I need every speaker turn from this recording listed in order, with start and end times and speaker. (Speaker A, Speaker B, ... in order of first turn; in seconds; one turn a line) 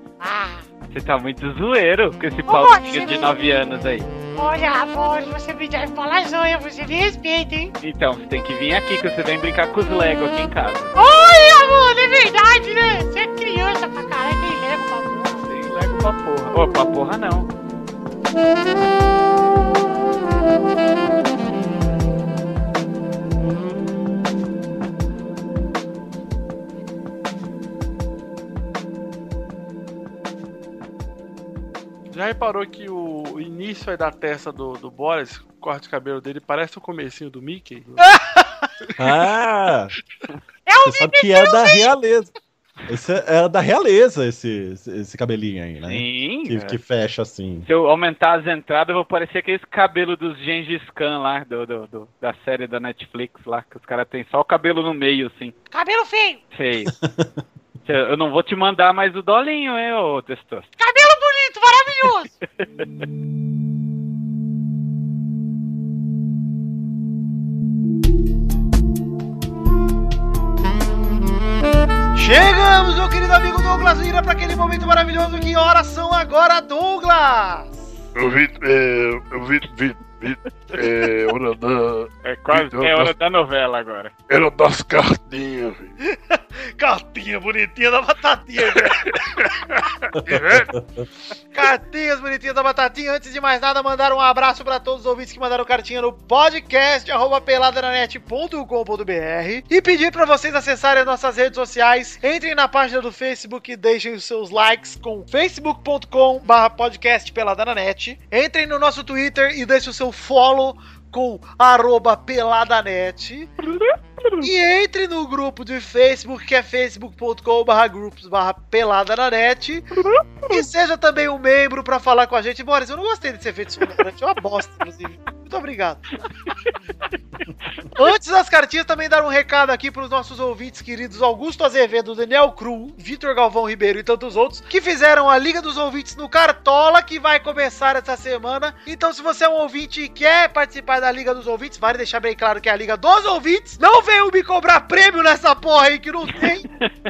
Speaker A: 0.2-0.7
Speaker B: 0.9-4.1
Speaker A: 2.5-3.3
Speaker A: 4.3-7.7
Speaker B: 7.8-10.9
Speaker A: 10.9-15.5
Speaker B: 15.4-17.5
Speaker C: 32.1-38.1
Speaker D: 38.1-38.5
Speaker E: 39.0-39.9
Speaker A: 40.6-41.9
Speaker E: 40.8-42.3
Speaker E: 42.9-47.7
Speaker B: 45.8-46.8
Speaker B: 47.6-55.5
Speaker A: 55.7-56.4
Speaker B: 56.5-56.9
Speaker E: 56.8-57.4
Speaker B: 57.9-60.7
Speaker A: 60.8-62.3
Speaker D: 72.1-77.8
Speaker F: 78.1-83.1
Speaker B: 82.2-84.1
Speaker F: 84.3-85.9
Speaker D: 86.0-89.4
Speaker F: 88.7-89.5
Speaker E: 90.1-91.0
Speaker F: 90.2-90.7
Speaker D: 91.5-113.5
Speaker B: 113.6-114.5
Speaker D: 114.4-119.9
Speaker B: 120.0-120.5
Speaker D: 120.5-126.0
Speaker D: 127.9-146.7